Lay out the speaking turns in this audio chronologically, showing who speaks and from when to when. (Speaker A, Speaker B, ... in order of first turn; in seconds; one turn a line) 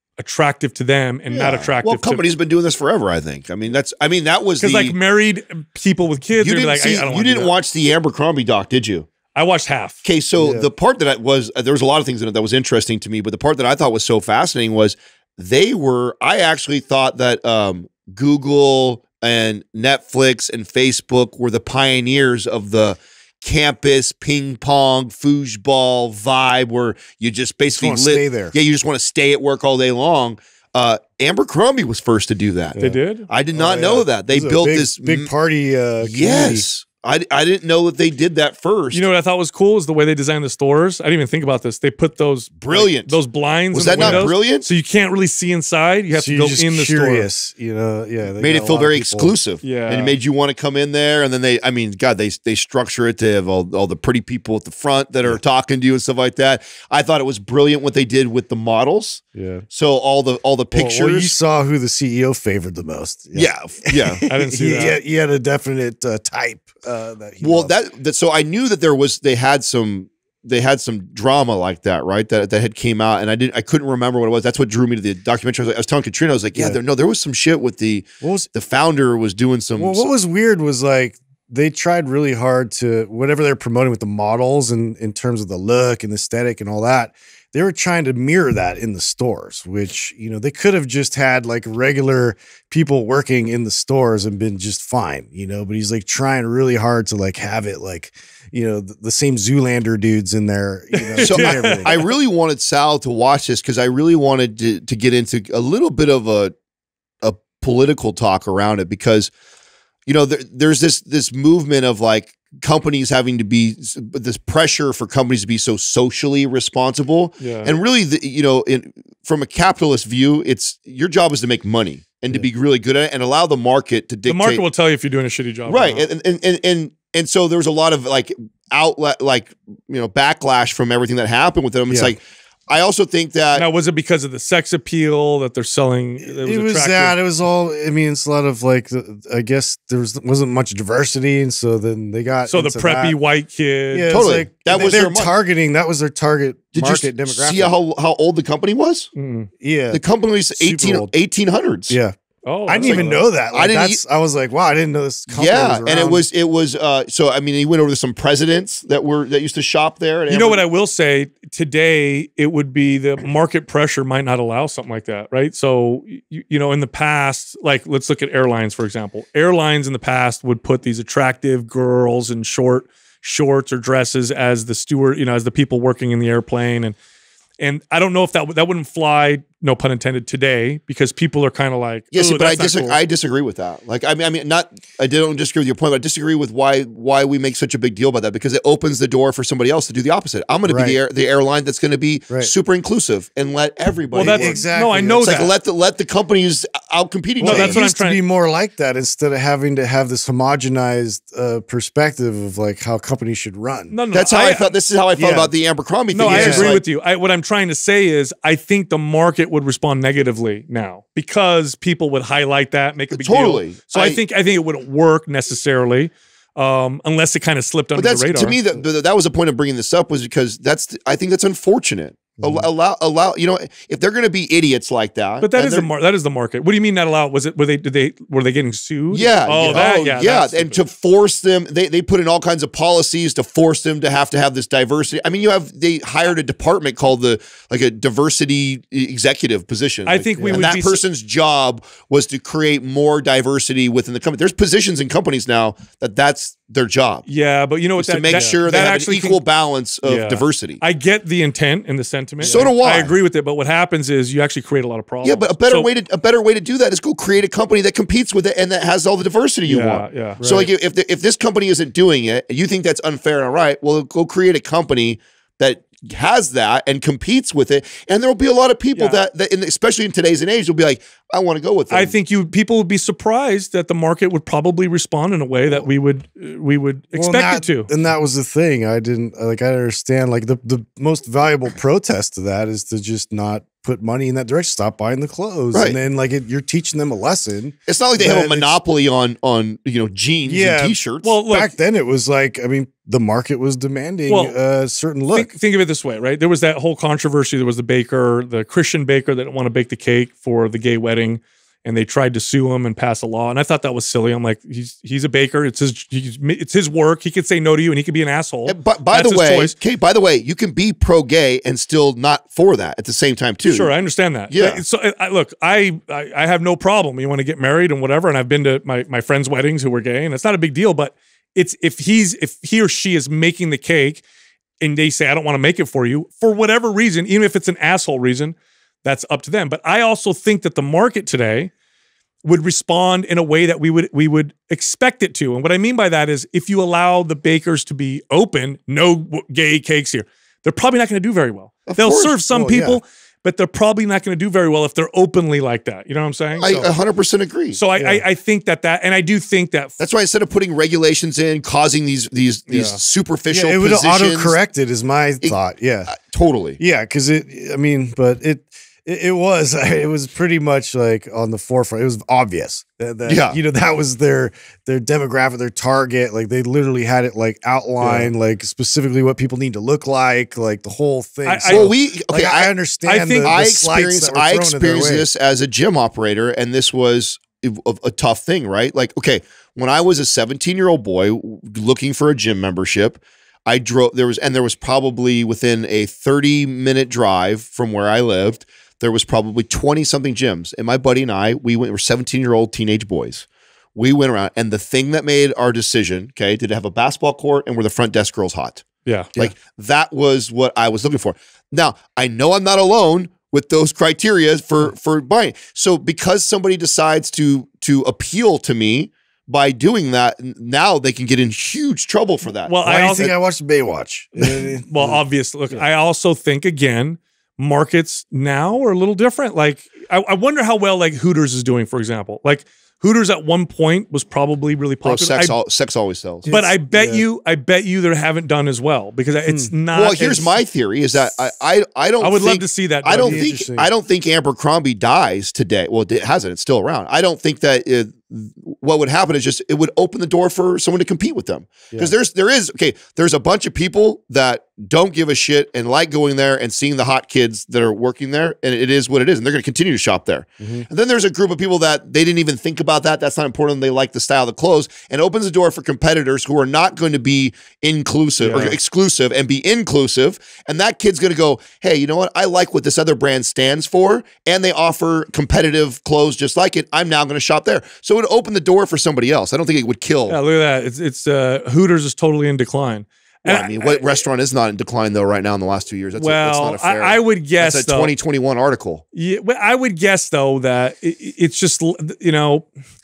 Speaker A: 0.2-2.2
Speaker B: 1.3-4.9
Speaker A: 4.6-7.5
Speaker B: 6.4-9.1
Speaker A: 9.3-10.0
Speaker B: 10.0-32.8
Speaker C: 10.3-10.7
Speaker C: 27.7-28.5
Speaker C: 32.7-33.0
Speaker A: 32.8-33.3
Speaker B: 33.3-35.3
Speaker C: 33.5-36.6
Speaker B: 36.0-39.0
Speaker A: 38.9-47.3
Speaker B: 42.6-43.2
Speaker B: 43.7-44.7
Speaker C: 43.9-44.3
Speaker C: 46.1-49.3
Speaker B: 48.4-61.3
Speaker A: 49.6-50.2
Speaker C: 59.3-59.6
Speaker C: 60.7-67.7
Speaker B: 63.3-64.9
Speaker A: 64.3-65.0
Speaker B: 67.4-80.1
Speaker C: 78.2-78.5
Speaker C: 79.7-102.0
Speaker A: 100.9-102.1
Speaker B: 101.2-106.5
Speaker B: 107.2-109.3
Speaker B: 110.0-124.6
Speaker A: 117.4-117.8
Speaker A: 124.2-126.0
Speaker B: 125.7-133.6
Speaker C: 131.9-132.1
Speaker A: 133.5-137.2
Speaker C: 136.3-143.2
Speaker A: 142.5-144.9
Speaker C: 143.9-147.7
Speaker B: 144.1-145.3
Speaker B: 146.7-149.1
Speaker A: 149.1-149.5
Speaker C: 149.6-150.0
Speaker B: 149.9-152.0
Speaker C: 150.5-151.1
Speaker C: 151.9-156.2
Speaker A: 152.4-153.3
Speaker B: 152.8-154.0
Speaker B: 155.3-160.7
Speaker A: 160.3-176.9
Speaker A: 177.6-183.0
Speaker B: 182.1-194.6
Speaker C: 190.6-191.0
Speaker A: 194.1-195.5
Speaker C: 194.1-195.3
Speaker B: 195.2-197.8
Speaker A: 197.4-198.2
Speaker C: 197.4-203.9
Speaker A: 203.9-204.7
Speaker B: 204.1-206.8
Speaker C: 205.2-205.5
Speaker A: 206.1-218.6
Speaker C: 206.2-206.7
Speaker B: 213.1-214.2
Speaker B: 217.9-225.9
Speaker C: 222.4-222.7
Speaker A: 225.4-230.8
Speaker B: 229.1-247.2
Speaker C: 229.6-229.9
Speaker A: 240.1-241.0
Speaker C: 240.3-240.7
Speaker A: 247.3-249.4
Speaker B: 248.0-250.8
Speaker A: 250.0-255.9
Speaker C: 252.4-252.7
Speaker B: 252.4-253.1
Speaker B: 255.2-272.1
Speaker A: 259.6-260.4
Speaker C: 260.4-260.7
Speaker A: 268.9-269.2
Speaker A: 271.9-277.9
Speaker C: 277.1-288.7
Speaker B: 285.7-286.0
Speaker B: 287.9-291.4
Speaker C: 290.4-295.5
Speaker A: 291.2-291.7
Speaker A: 294.3-294.5
Speaker A: 295.3-309.7
Speaker B: 308.6-313.9
Speaker A: 313.6-324.2
Speaker B: 314.5-314.8
Speaker A: 324.8-331.7
Speaker A: 332.4-346.9
Speaker B: 341.9-342.4
Speaker C: 342.5-343.0
Speaker B: 346.6-347.8
Speaker A: 347.7-350.0
Speaker C: 348.0-348.2
Speaker B: 350.0-354.6
Speaker A: 352.7-353.0
Speaker C: 353.5-356.1
Speaker B: 355.4-356.8
Speaker C: 356.8-375.3
Speaker B: 363.2-363.6
Speaker A: 371.4-371.9
Speaker B: 371.7-372.7
Speaker A: 373.1-373.5
Speaker B: 373.4-398.8
Speaker A: 399.0-399.3
Speaker B: 399.4-413.3
Speaker A: 412.6-413.3
Speaker C: 412.8-415.8
Speaker A: 414.9-425.6
Speaker B: 425.0-426.5
Speaker C: 426.4-427.2
Speaker A: 426.5-430.6
Speaker C: 429.5-429.7
Speaker B: 429.9-470.4
Speaker A: 432.2-433.4
Speaker C: 433.1-433.9
Speaker C: 450.6-450.9
Speaker A: 458.4-458.8
Speaker A: 470.3-474.2
Speaker B: 473.4-479.0
Speaker A: 476.2-478.1
Speaker A: 479.1-482.7